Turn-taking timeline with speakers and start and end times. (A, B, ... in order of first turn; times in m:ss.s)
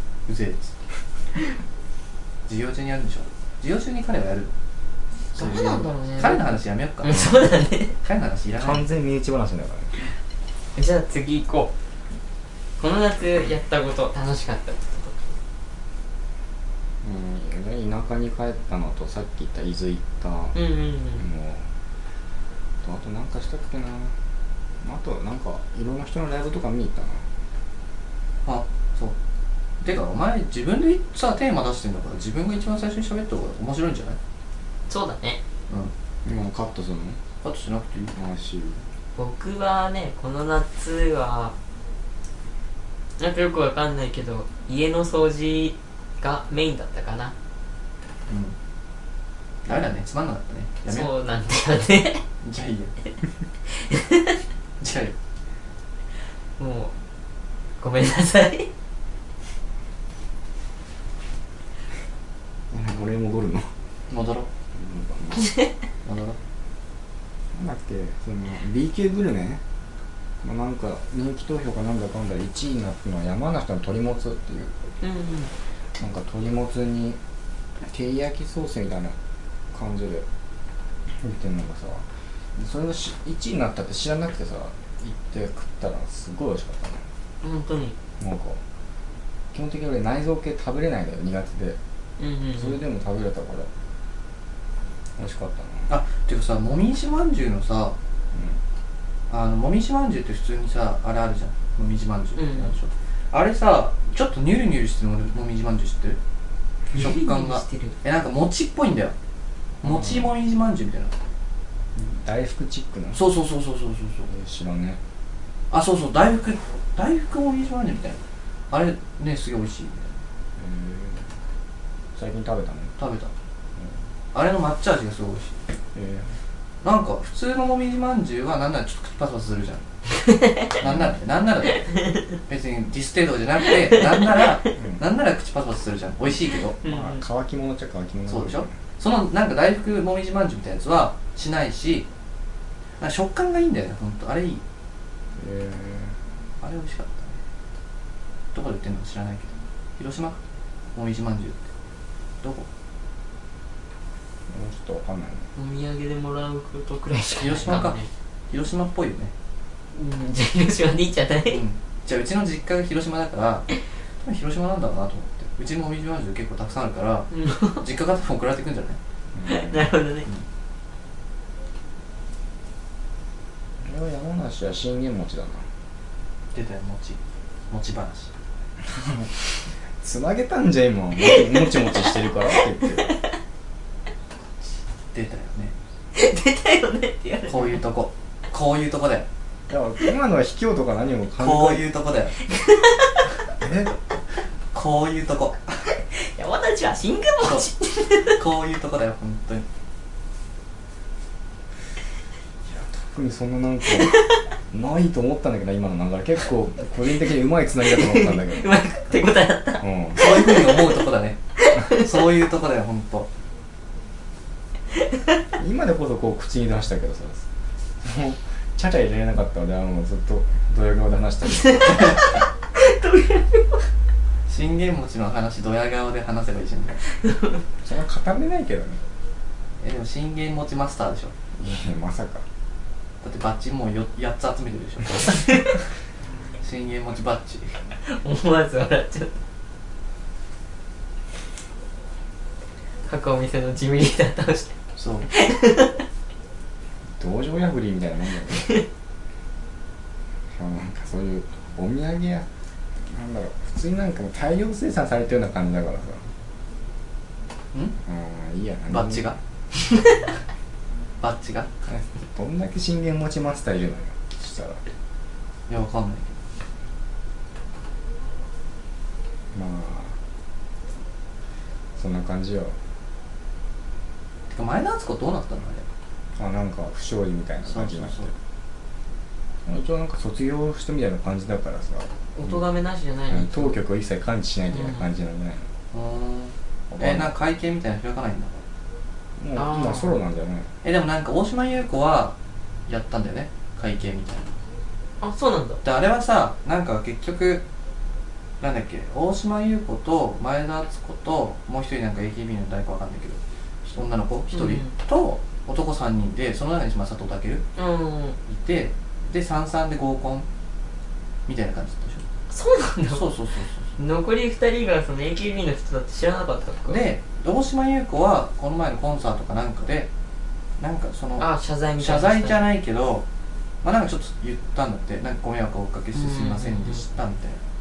0:00.3-0:00.7 A
0:02.5-0:04.5 A
0:05.3-0:07.3 A
0:05.3-0:07.9 B
0:08.0-0:08.8 A
0:08.6-0:09.9 C
0:10.7-0:11.7 B
0:12.8-0:15.3 B
0:17.0-0:20.6 C
0:20.5-0:21.2 B
0:21.2-0:21.7 C
0:22.8-0:24.2 C
0:24.8-0:27.2 C
0:28.4-0:29.1 A
0:29.8-0:34.2 A
0:34.9-0:35.4 B
0:36.2-0:37.2 C
0:37.4-0:38.1 A
0:38.1-0:38.8 C
0:39.2-0:41.5 B
0:43.2-0:47.3 B
0:48.3-0:48.5 A
0:49.6-0:51.1 A
0:50.9-0:52.2 B
0:52.4-0:52.9 A
0:53.8-0:54.3 B
0:54.8-0:55.1 A
0:56.6-0:56.9 B
0:57.8-0:58.7 B
1:02.7-1:03.7 C
1:04.1-1:04.5 A
1:04.7-1:05.5 C
1:06.0-1:06.4 A
1:07.5-1:09.6 C
1:10.4-1:14.9 C
1:15.0-1:15.5 B
1:16.0-1:17.2 C
1:17.8-1:19.2 C
1:19.7-1:20.2 C
1:21.1-1:27.0 C
1:27.4-1:28.0 B
1:28.2-1:28.6 C
1:29.5-1:31.8 C
1:32.2-1:32.8 B
1:32.6-1:33.7 C
1:35.2-1:35.9 C
1:35.9-1:37.9 A
1:38.3-1:38.6 C
1:39.3-1:46.2 A
1:42.4-1:42.7 B
1:46.9-1:49.1 A
1:46.9-1:47.9 B
1:49.8-1:51.1 A
1:49.8-1:50.3 C
1:52.0-1:53.2 C
1:53.1-1:54.3 A
1:54.3-1:55.0 C
1:55.7-2:00.1 A
2:00.6-2:01.3 C
2:02.1-2:02.9 C
2:03.0-2:03.3 A
2:04.3-2:05.6 A
2:05.9-2:06.4 C
2:06.8-2:09.8 A
2:10.2-2:10.7 B
2:10.8-2:11.9 A
2:10.8-2:11.1 C
2:12.5-2:16.8 A
2:16.8-2:17.2 B
2:16.8-2:18.7 C
2:18.3-2:22.1 A
2:23.0-2:24.6 A
2:25.4-2:26.2 C
2:26.6-2:27.4 A
2:28.5-2:30.4 A
2:30.9-2:31.6 A
2:32.4-2:32.7 A
2:34.5-2:35.5 C
2:35.5-2:38.1 B
2:37.4-2:39.3 A
2:39.9-2:41.6 B
2:41.5-2:43.7 A
2:44.2-2:49.0 A
2:47.3-2:47.8 B
2:49.3-2:49.9 C
2:49.4-2:50.2 B
2:53.8-2:55.7 C
2:56.5-2:58.3 A
2:58.8-3:03.1 C
3:01.2-3:03.3 B
3:05.1-3:05.7 A
3:06.1-3:07.8 B
3:07.5-3:09.3 A
3:09.7-3:11.8 C
3:11.4-3:12.4 A
3:12.5-3:13.2 B
3:13.6-3:13.9 C
3:14.7-3:15.8 A
3:15.9-3:18.4 B
3:17.4-3:17.7 A
3:18.2-3:19.6 A
3:22.6-3:28.7 C
3:24.1-3:24.4 B
3:27.8-3:31.0 B
3:29.8-3:30.4 C
3:30.2-3:31.4 A
3:31.6-3:32.0 B
3:31.9-3:33.3 A
3:35.6-3:37.5 C
3:38.0-3:42.1 C
3:41.6-3:43.9 B
3:44.5-3:47.0 A
3:47.2-3:47.6 B
3:47.8-3:49.0 C
3:49.8-3:51.3 A
3:51.5-3:52.4 C
3:53.2-3:55.8 A
3:55.3-3:55.7 B
3:56.6-3:57.9 A
3:58.0-3:59.3 B
4:03.0-4:04.7 B
4:05.0-4:05.3 A
4:05.3-4:06.0 B
4:07.2-4:08.7 C
4:08.5-4:08.8 B
4:10.5-4:12.4 C
4:13.0-4:16.2 C
4:18.0-4:19.4 C
4:18.9-4:19.4 A
4:21.2-4:21.7 A
4:21.8-4:24.8 C
4:25.7-4:26.4 A
4:29.5-4:30.2 C
4:32.0-4:32.8 C
4:34.5-4:35.9 A
4:36.4-4:38.3 C
4:37.6-4:38.3 A
4:39.6-4:42.6 C
4:42.4-4:43.8 B
4:43.3-4:45.7 C
4:44.7-4:45.1 B
4:45.9-4:48.6 A
4:46.9-4:47.3 C
4:49.4-4:50.7 C
4:49.6-4:50.2 B
4:50.8-4:52.3 A
4:52.9-4:54.6 A
4:55.2-4:55.8 B
4:55.8-4:57.6 A
4:58.6-5:07.6 A
5:04.5-5:04.9 B
5:07.8-5:08.4 B
5:08.5-5:10.4 A
5:11.5-5:12.2 A
5:12.5-5:13.3 B
5:13.1-5:13.9 A
5:14.0-5:17.0 B
5:16.9-5:20.1 A
5:20.8-5:21.5 A
5:21.4-5:22.6 B
5:22.0-5:23.2 A
5:23.8-5:27.6 A
5:26.1-5:27.0 B